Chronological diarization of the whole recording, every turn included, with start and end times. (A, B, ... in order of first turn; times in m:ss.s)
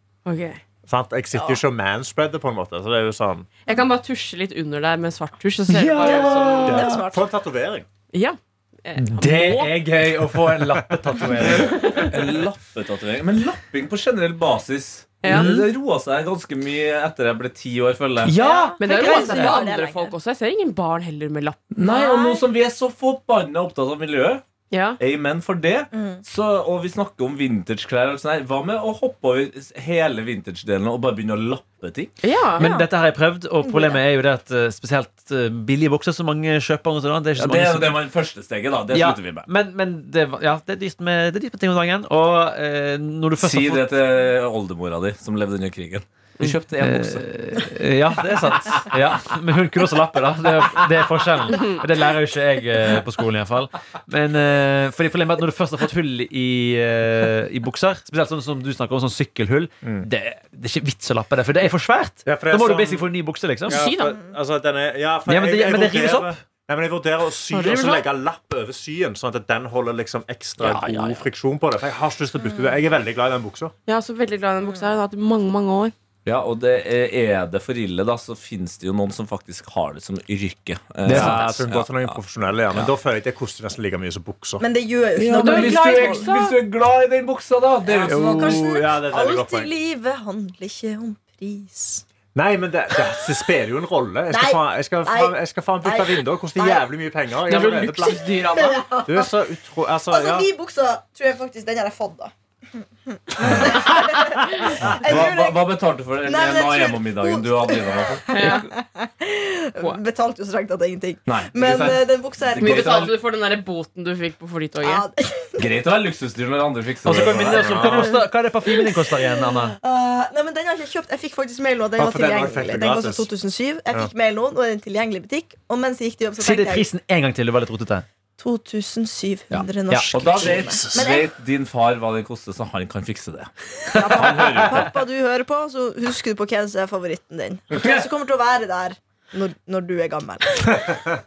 0:00.2-0:00.6 A
0:00.8-0:03.5 B
0:01.3-0:01.6 C
0:03.6-0:07.0 A
0:05.7-0:07.0 D
0:06.0-0:07.3 C
0:06.8-0:07.8 B
0:08.1-0:09.8 A
0:09.0-0:12.1 D
0:10.1-0:11.6 B
0:11.8-0:12.1 A
0:12.0-0:18.4 E
0:15.2-0:15.5 A
0:15.2-0:15.7 D
0:18.2-0:19.6 D
0:18.4-0:20.1 C
0:18.8-0:22.0 A
0:21.7-0:24.4 E
0:21.8-0:22.4 C
0:24.7-0:25.0 A
0:25.0-0:32.1 E
0:25.9-0:26.2 C
0:32.2-0:32.7 A
0:32.6-0:38.0 D
0:32.6-0:32.9 C
0:33.6-0:34.0 C
0:37.4-0:39.5 E
0:38.9-0:44.0 D
0:43.4-0:47.5 E
0:46.4-1:03.8 D
0:51.6-0:51.8 A
0:59.8-1:00.1 B
1:02.2-1:03.1 B
1:03.7-1:04.2 A
1:03.7-1:13.7 B
1:05.3-1:06.4 D
1:07.5-1:08.0 A
1:10.6-1:11.3 E
1:12.4-1:12.7 C
1:13.9-1:15.9 A
1:16.2-1:22.2 E
1:21.0-1:21.6 D
1:21.1-1:24.6 B
1:24.6-1:26.3 C
1:25.2-1:28.7 E
1:25.3-1:26.6 A
1:27.8-1:32.0 C
1:28.1-1:29.7 B
1:32.3-1:38.3 B
1:34.3-1:36.9 C
1:37.5-1:38.8 A
1:38.0-1:39.5 C
1:39.0-1:40.5 B
1:40.1-1:53.1 C
1:44.8-1:45.3 B
1:44.8-1:48.6 E
1:48.3-1:48.6 A
1:51.3-1:53.1 E
1:52.6-1:55.0 A
1:54.8-1:55.7 C
1:55.6-1:58.1 E
1:57.0-1:59.8 D
1:57.1-1:58.1 B
1:57.9-2:06.9 C
2:02.0-2:03.3 B
2:06.4-2:08.0 D
2:08.4-2:11.3 C
2:09.5-2:10.2 D
2:10.1-2:14.9 E
2:10.5-2:11.2 B
2:13.9-2:21.0 C
2:17.7-2:18.0 E